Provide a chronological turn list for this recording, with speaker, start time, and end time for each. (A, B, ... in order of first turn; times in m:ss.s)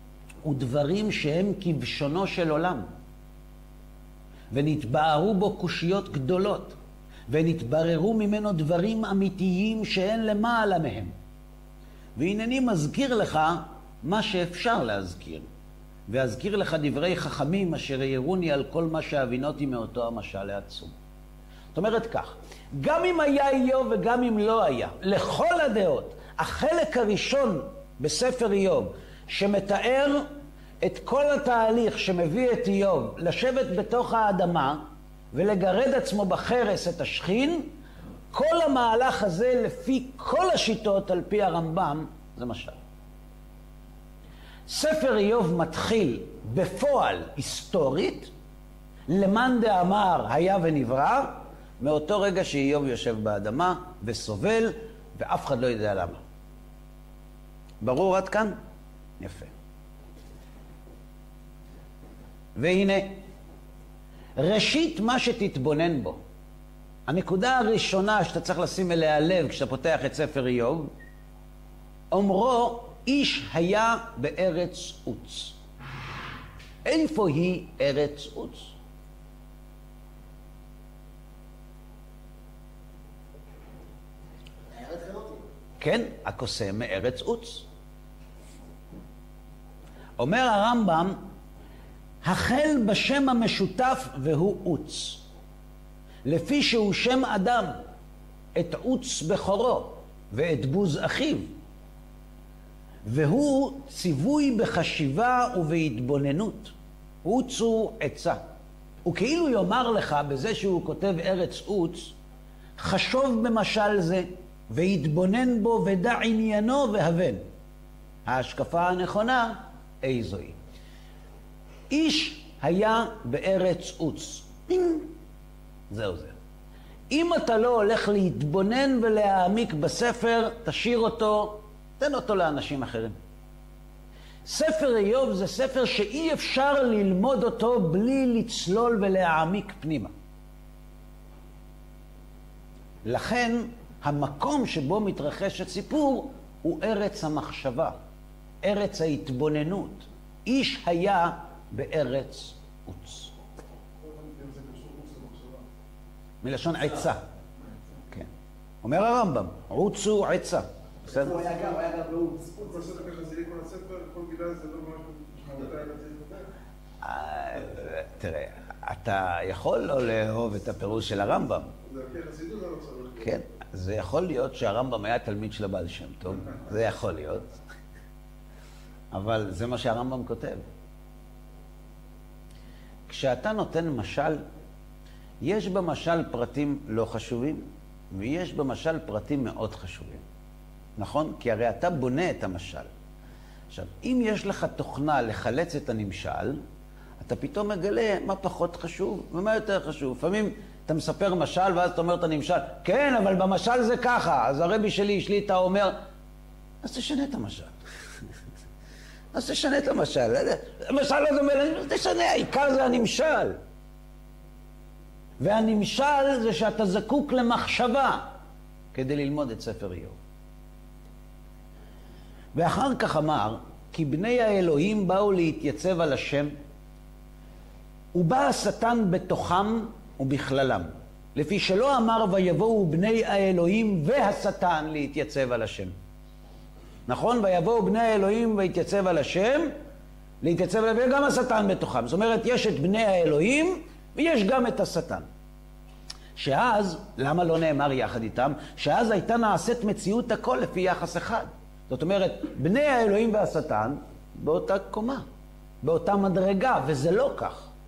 0:00.4-0:02.9 A
0:04.5-0:06.8 A
0:07.3-0:11.1 A
0:12.2-0:15.5 A
0:16.1-0:21.0 A
0:21.7-0:30.3 A
0:30.8-0:34.8 A
0:35.3-0:37.7 A
0:38.3-0:42.8 A
0:44.7-0:48.3 A
0:49.1-0:56.2 A
0:57.8-0:58.6 A
0:59.2-0:59.5 A
1:02.6-1:03.2 A
1:04.4-1:06.2 A
1:07.1-1:10.9 A
1:12.1-1:15.6 A
1:16.8-1:18.7 A
1:24.7-1:25.5 B
1:25.8-1:27.7 A
1:30.2-1:31.2 A
1:32.2-1:35.2 A
1:36.2-1:37.8 A
1:38.6-1:41.5 A
1:43.1-1:48.4 A
1:49.1-1:52.1 A
1:52.8-1:57.4 A
1:58.3-2:00.6 A
2:01.9-2:05.1 A
2:05.9-2:06.4 A
2:07.1-2:13.2 A
2:14.4-2:20.1 A
2:23.0-2:28.0 A
2:28.6-2:33.3 A
2:34.0-2:35.7 C
2:36.4-2:37.2 A
2:38.8-2:41.3 A
2:41.1-2:43.0 B
2:42.6-2:46.4 C
2:47.0-2:51.7 A
2:51.9-2:53.4 C
2:53.2-2:57.5 A
2:59.1-3:00.7 A
3:03.1-3:04.4 A
3:05.4-3:10.2 A
3:11.0-3:12.9 A
3:13.7-3:16.6 A
3:17.2-3:26.0 A
3:26.8-3:27.8 A
3:29.3-3:33.6 A
3:35.4-3:38.3 A
3:38.9-3:40.2 A
3:42.6-3:46.5 A
3:48.1-3:56.0 A
3:57.1-3:59.7 A
4:00.4-4:05.3 A
4:06.4-4:15.2 A
4:15.8-4:17.7 A